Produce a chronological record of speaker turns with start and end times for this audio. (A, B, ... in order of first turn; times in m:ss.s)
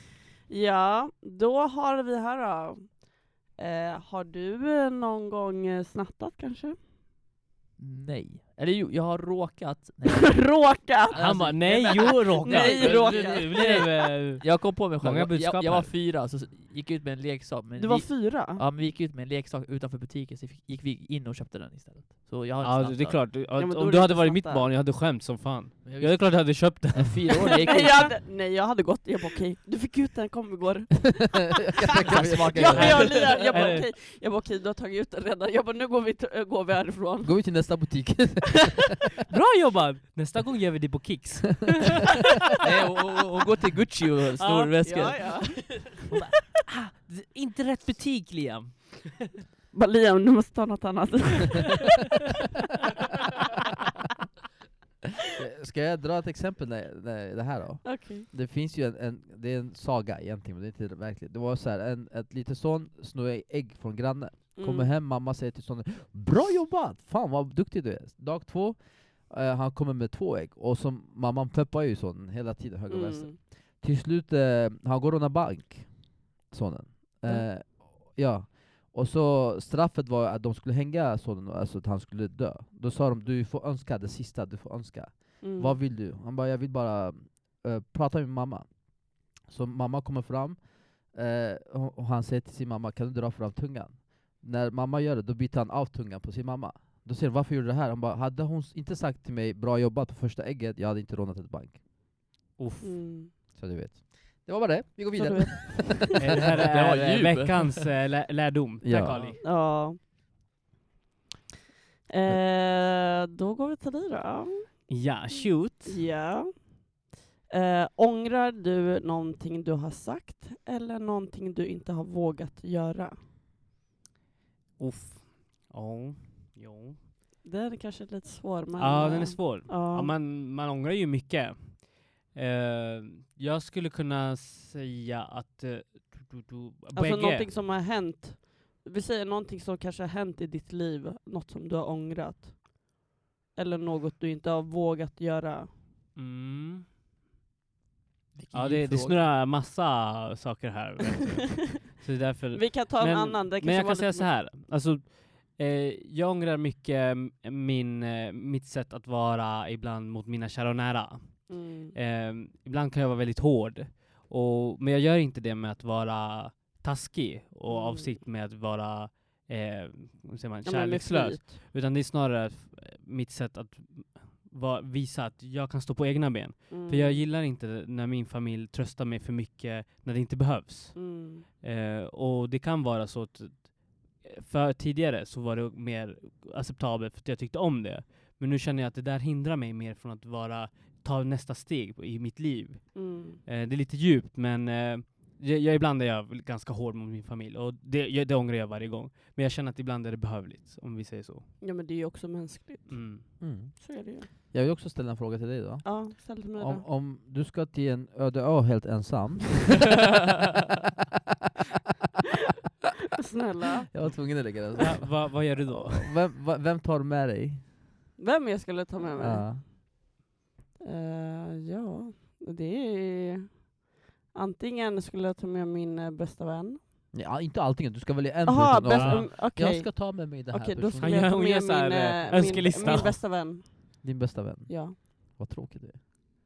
0:00.5-0:06.8 A
0:07.8-0:23.3 B
0:10.0-0:13.9 A
0:11.2-0:15.9 C
0:17.8-0:18.6 A
0:22.6-0:27.6 C
0:23.5-0:24.7 A
0:25.8-0:28.2 B
0:27.4-0:37.9 A
0:31.6-0:33.2 D
0:32.0-0:33.4 B
0:32.7-0:33.8 C
0:37.2-0:38.9 D
0:39.3-0:42.3 C
0:42.6-0:46.2 B
0:44.4-0:45.4 C
0:44.8-0:45.9 A
0:46.1-0:49.4 C
0:49.7-0:51.9 A
0:55.3-1:41.8 D
0:57.8-0:58.3 A
1:04.6-1:04.9 A
1:12.9-1:13.4 A
1:25.4-1:25.8 A
1:42.6-1:42.9 C
1:42.8-1:43.3 A
1:43.5-1:46.2 D
1:45.1-1:46.2 A
1:46.1-1:49.4 C
1:46.5-1:47.8 B
1:48.8-1:49.2 D
1:49.4-1:50.0 A
1:52.1-2:03.2 A
1:54.9-1:56.0 C
2:04.8-2:07.0 C
2:07.4-2:10.1 A
2:08.8-2:17.5 C
2:16.9-2:23.0 A
2:23.5-2:25.7 A
2:26.1-2:26.9 C
2:28.3-2:29.2 B
2:28.5-3:21.5 C
2:32.5-2:34.3 A
2:41.5-2:42.0 A
2:47.7-2:48.2 A
2:50.6-2:51.5 A
2:56.7-2:57.2 A
3:00.9-3:01.4 A
3:12.9-3:13.4 A
3:21.6-3:24.3 A
3:22.9-3:23.2 C
3:23.4-3:30.0 D
3:25.8-3:26.8 A
3:33.2-3:34.5 A
3:33.9-3:37.6 D
3:34.8-3:36.1 C
3:38.2-3:39.8 A
3:39.2-3:39.6 D
3:40.8-3:43.8 A
3:44.3-3:46.8 A
3:47.1-3:51.3 D
3:48.4-3:54.0 A
3:48.9-3:49.2 C
3:51.0-3:53.2 C
3:54.0-3:56.0 D
3:54.7-3:55.0 A